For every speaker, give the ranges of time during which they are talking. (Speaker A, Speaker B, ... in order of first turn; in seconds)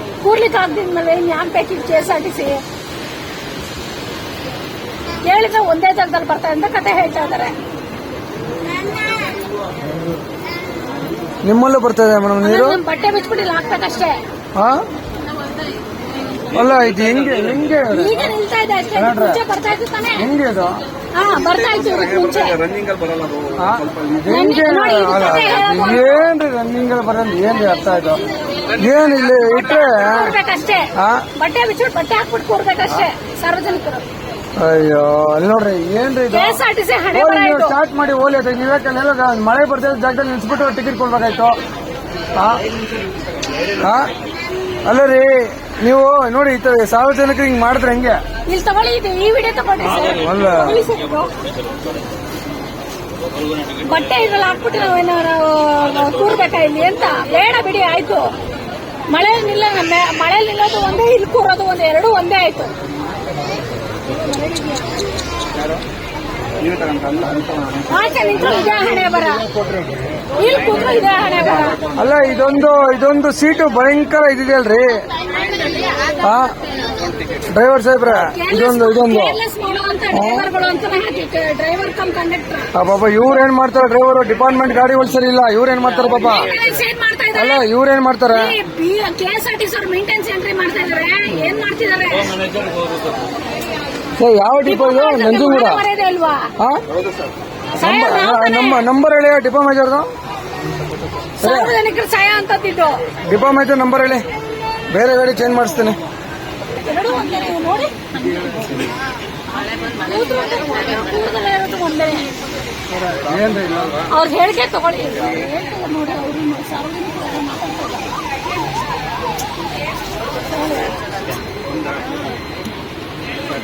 Speaker A: 0.2-2.6, 5.2-7.6, 12.4-14.2, 17.9-20.3, 21.1-22.7, 24.3-26.3, 29.4-34.0, 36.3-37.8, 48.5-51.3, 53.8-58.3, 59.1-62.7, 64.1-65.0, 67.9-69.5, 70.4-71.8, 78.3-82.7, 86.1-87.7, 88.3-92.5, 94.6-96.5, 97.8-98.8, 101.4-103.0, 106.7-108.5, 109.8-112.3, 114.1-118.2, 120.5-121.0
Speaker B: 11.4-12.8, 14.6-14.8, 16.5-18.3, 18.9-19.4, 20.2-20.8, 23.6-30.4, 30.9-31.3, 34.6-36.6, 37.1-41.6, 42.4-42.7, 43.7-44.1, 44.9-48.2, 50.1-50.9, 71.9-75.1, 76.2-76.6, 77.4-79.4, 80.1-80.5, 82.7-86.5, 87.4-88.6, 94.2-95.8, 96.6-97.0, 97.8-100.1, 101.4-101.7, 103.2-104.2, 104.9-106.0, 112.9-114.1
Speaker C: 22.7-23.6, 66.6-67.8